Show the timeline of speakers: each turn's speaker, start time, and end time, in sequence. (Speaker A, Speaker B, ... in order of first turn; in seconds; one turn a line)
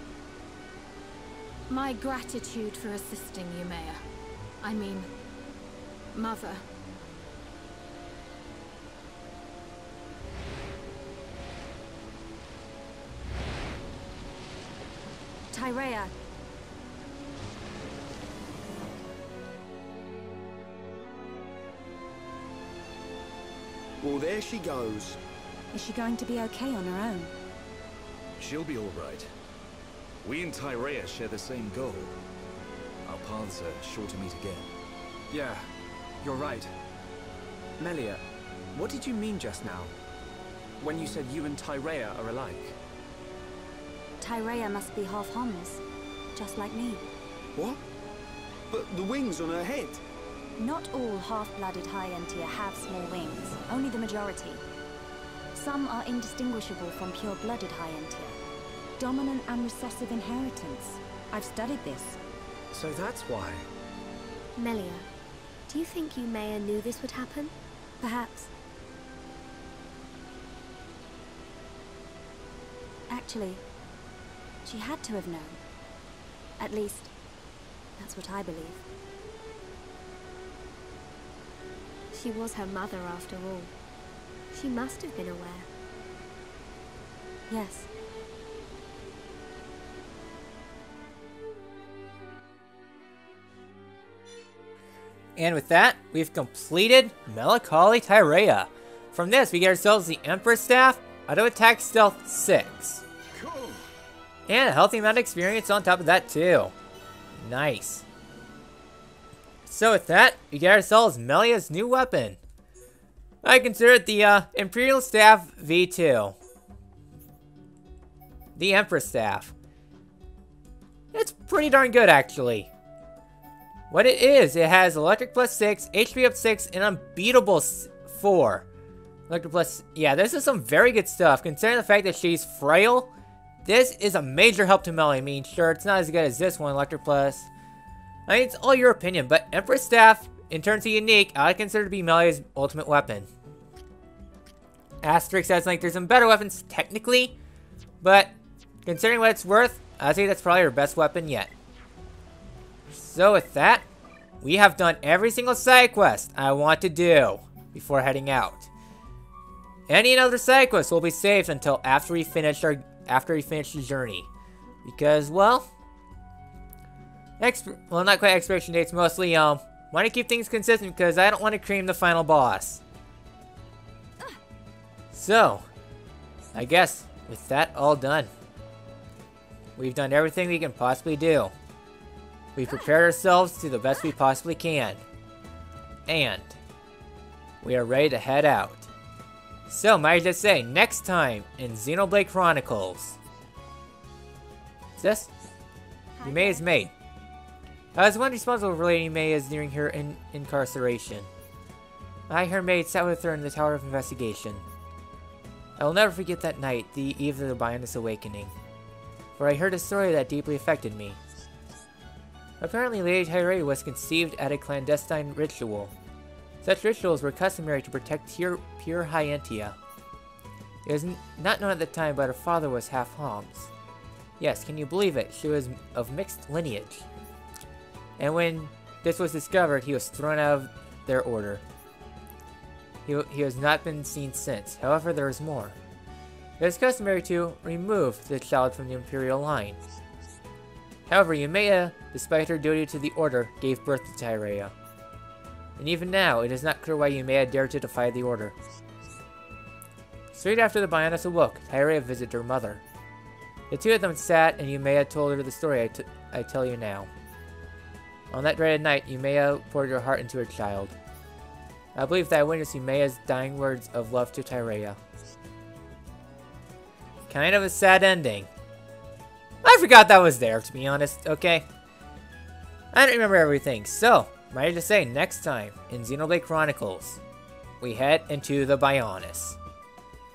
Speaker A: 1.7-4.0
Speaker A: 4.6-5.1
Speaker A: 6.1-6.6
Speaker B: 15.5-16.1
Speaker C: 24.0-25.2
Speaker B: 25.7-27.3
Speaker D: 28.4-29.3
Speaker D: 30.2-32.2
Speaker D: 33.0-34.7
Speaker E: 35.3-35.6
Speaker E: 36.2-36.7
Speaker E: 37.8-38.2
Speaker E: 38.8-39.9
Speaker E: 40.8-42.8
Speaker B: 44.2-45.8
Speaker B: 46.4-47.0
Speaker C: 48.7-50.0
Speaker B: 50.6-54.6
Speaker B: 55.5-58.4
Speaker B: 59.0-62.2
Speaker E: 62.7-63.6
Speaker F: 64.6-65.1
Speaker F: 65.7-67.5
Speaker B: 68.0-68.5
Speaker B: 73.1-73.6
Speaker B: 74.7-75.6
Speaker B: 76.6-77.1
Speaker B: 78.0-78.8
Speaker F: 82.1-83.7
Speaker F: 84.5-85.7
Speaker B: 87.5-87.9
Speaker G: 95.4-103.0
Speaker C: 103.4-103.8
Speaker G: 104.5-106.7
Speaker G: 107.4-108.0
Speaker G: 109.7-112.4
Speaker G: 113.4-116.4
Speaker G: 118.6-119.5
Speaker G: 121.1-122.7
Speaker G: 123.9-128.7
Speaker G: 129.3-133.1
Speaker G: 133.6-137.5
Speaker G: 138.3-143.3
Speaker G: 145.0-147.3
Speaker G: 148.0-148.3
Speaker G: 148.9-151.5
Speaker G: 152.9-153.8
Speaker G: 154.4-158.7
Speaker G: 159.9-164.3
Speaker G: 164.8-165.7
Speaker G: 167.4-172.8
Speaker G: 175.1-175.7
Speaker G: 176.6-178.3
Speaker G: 179.8-181.5
Speaker G: 182.6-185.0
Speaker G: 186.1-186.6
Speaker G: 187.6-188.9
Speaker G: 189.7-193.2
Speaker G: 195.0-195.3
Speaker G: 196.2-196.9
Speaker G: 197.9-201.3
Speaker G: 202.3-204.6
Speaker G: 205.8-208.5
Speaker G: 209.3-211.2
Speaker G: 212.6-215.9
Speaker G: 216.6-219.8
Speaker G: 220.8-223.7
Speaker G: 224.4-227.1
Speaker G: 228.2-231.6
Speaker G: 233.1-235.8
Speaker G: 236.6-239.8
Speaker G: 241.1-244.7
Speaker G: 245.8-248.6
Speaker G: 250.3-252.8
Speaker G: 253.7-257.1
Speaker G: 258.3-260.9
Speaker G: 261.9-265.0
Speaker G: 267.3-268.5
Speaker G: 269.6-271.7
Speaker G: 272.9-277.2
Speaker G: 277.8-279.6